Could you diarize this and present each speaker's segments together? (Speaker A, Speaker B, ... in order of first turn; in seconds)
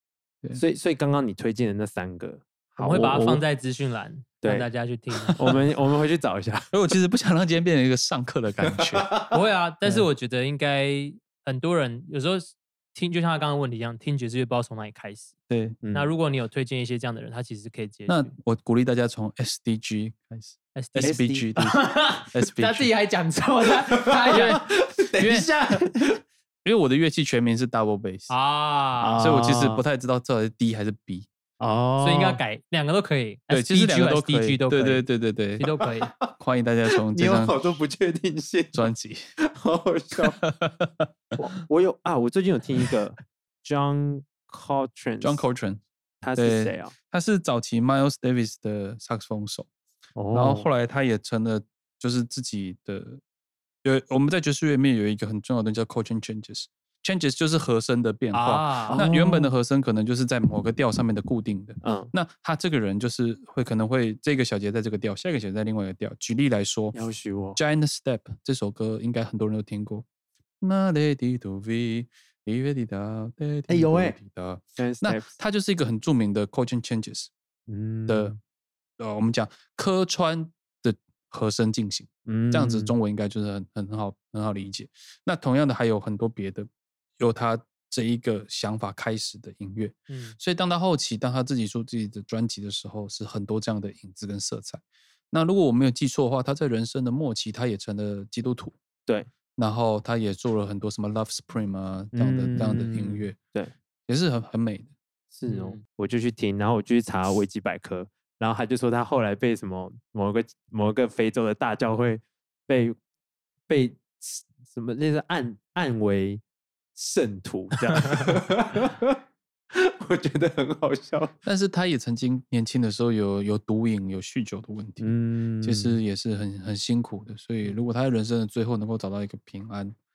Speaker A: 0.5-3.4, 4.4-4.7, 5.3-6.7, 9.0-9.3, 15.8-16.1, 21.0-21.4, 23.9-26.2, 29.0-29.8, 31.6-32.4, 36.0-36.3, 36.9-40.4, 41.4-45.4, 46.2-46.9, 50.1-50.7, 58.9-59.5, 61.8-62.1, 66.9-67.6, 73.7-74.2, 74.8-75.3, 77.7-78.4, 82.2-82.9, 102.1-103.7, 105.3-113.0, 113.7-116.4, 116.9-119.2, 119.7-121.3, 125.0-126.0
Speaker B: 2.8-5.5, 9.3-15.3, 15.9-18.3, 20.8-24.6, 28.3-29.2, 32.0-35.0, 35.6-36.1, 58.3-59.0, 90.1-90.4, 105.5-105.8
Speaker C: 6.7-9.1, 15.5-15.8, 18.1-22.9, 24.3-24.6, 25.2-25.6, 26.6-28.3, 29.2-31.3, 33.5-35.7, 36.3-37.6, 38.7-39.3, 40.1-41.1, 45.2-45.8, 46.4-49.7, 50.3-53.2, 53.8-67.0, 67.5-70.0, 70.6-77.3, 78.1-78.3, 79.0-98.8, 99.6-103.4, 104.1-104.9, 121.4-130.0